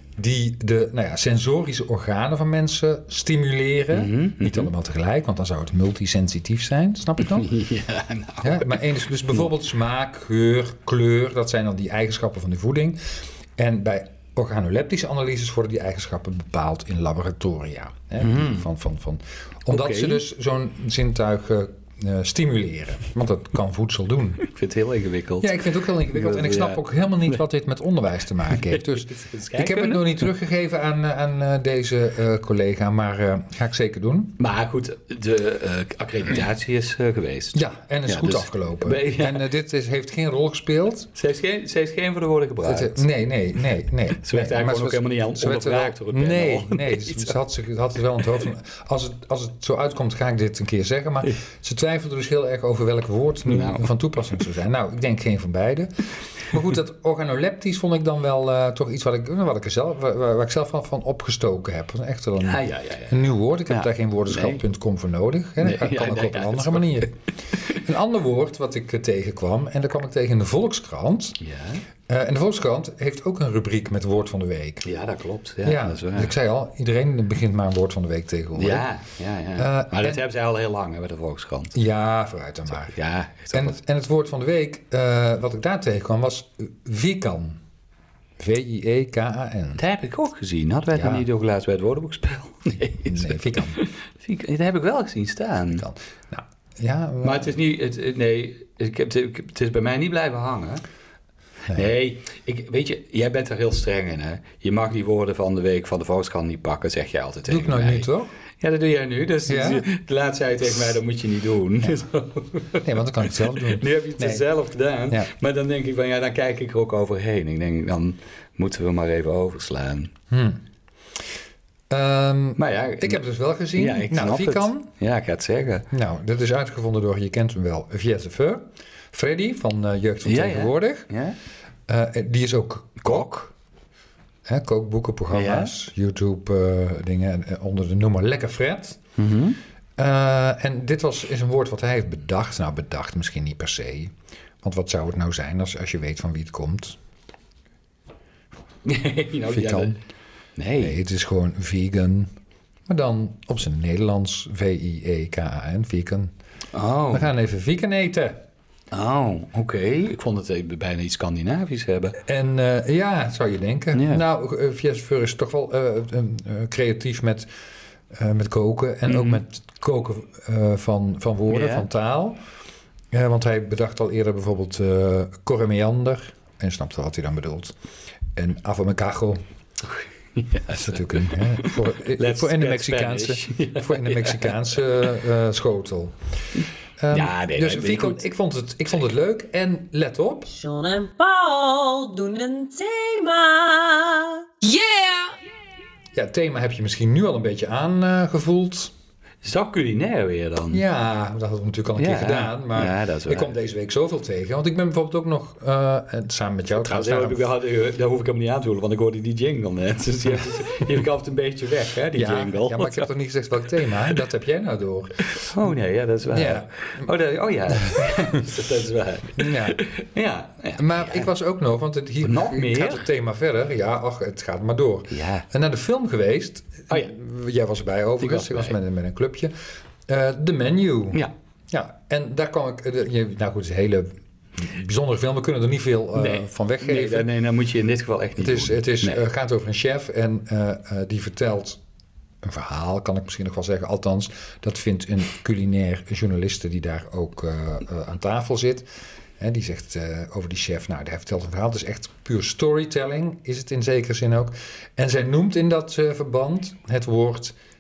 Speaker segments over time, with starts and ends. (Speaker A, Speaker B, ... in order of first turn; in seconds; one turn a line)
Speaker A: 0.2-7.6
Speaker B: 3.9-4.7
Speaker B: 7.3-9.5
Speaker A: 8.4-24.4
Speaker B: 18.2-18.6
Speaker B: 19.7-20.2
Speaker B: 24.4-26.8
Speaker A: 25.4-34.4
Speaker B: 28.5-30.3
Speaker B: 34.4-39.5
Speaker A: 37.5-41.1
Speaker B: 41.1-43.1
Speaker A: 42.6-71.4
Speaker B: 44.2-47.4
Speaker B: 53.5-53.9
Speaker B: 62.4-64.6
Speaker B: 65.6-67.7
Speaker B: 71.4-71.8
Speaker A: 72.1-74.9
Speaker B: 74.8-76.3
Speaker A: 75.6-78.9
Speaker B: 78.5-81.8
Speaker A: 79.6-80.2
Speaker A: 81.7-82.9
Speaker B: 82.8-83.8
Speaker A: 83.5-87.6
Speaker A: 88.4-89.8
Speaker B: 89.8-95.9
Speaker A: 90.9-91.2
Speaker A: 93.1-93.8
Speaker A: 95.8-97.6
Speaker B: 97.2-100.8
Speaker B: 101.7-108.1
Speaker A: 107.5-108.3
Speaker B: 108.6-120.1
Speaker A: 109.5-109.9
Speaker A: 112.8-114.4
Speaker A: 120.3-120.6
Speaker A: 121.9-124.9
Speaker B: 122.6-123.2
Speaker B: 123.8-125.9
Speaker A: 125.9-131.1
Speaker B: 130.2-131.4
Speaker A: 131.9-133.5
Speaker B: 133.0-133.5
Speaker A: 134.4-139.0
Speaker B: 135.3-135.7
Speaker B: 139.2-139.6
Speaker A: 140.0-147.0
Speaker B: 148.8-150.0
Speaker A: 149.5-149.9
Speaker B: 150.6-151.0
Speaker A: 150.8-152.3
Speaker A: 152.9-156.3
Speaker B: 156.7-157.3
Speaker A: 157.1-158.4
Speaker B: 158.9-162.2
Speaker A: 162.2-167.5
Speaker B: 163.9-164.2
Speaker A: 168.1-172.4
Speaker B: 169.1-169.4
Speaker B: 171.5-171.9
Speaker A: 173.1-177.8
Speaker A: 178.3-179.4
Speaker B: 179.8-184.6
Speaker A: 180.7-186.2
Speaker A: 187.0-190.5
Speaker B: 187.1-188.2
Speaker C: 190.5-195.3
Speaker A: 196.1-198.9
Speaker B: 199.4-200.8
Speaker A: 200.7-207.4
Speaker B: 202.0-203.5
Speaker B: 206.8-213.1
Speaker A: 212.1-215.5
Speaker B: 215.3-221.3
Speaker A: 216.3-217.1
Speaker A: 217.8-218.2
Speaker A: 219.4-219.8
Speaker A: 220.8-229.5
Speaker B: 222.2-223.1
Speaker B: 225.1-225.5
Speaker B: 228.2-228.8
Speaker A: 230.1-237.3
Speaker B: 236.1-239.2
Speaker A: 238.4-241.8
Speaker A: 242.4-248.9
Speaker A: 249.4-257.6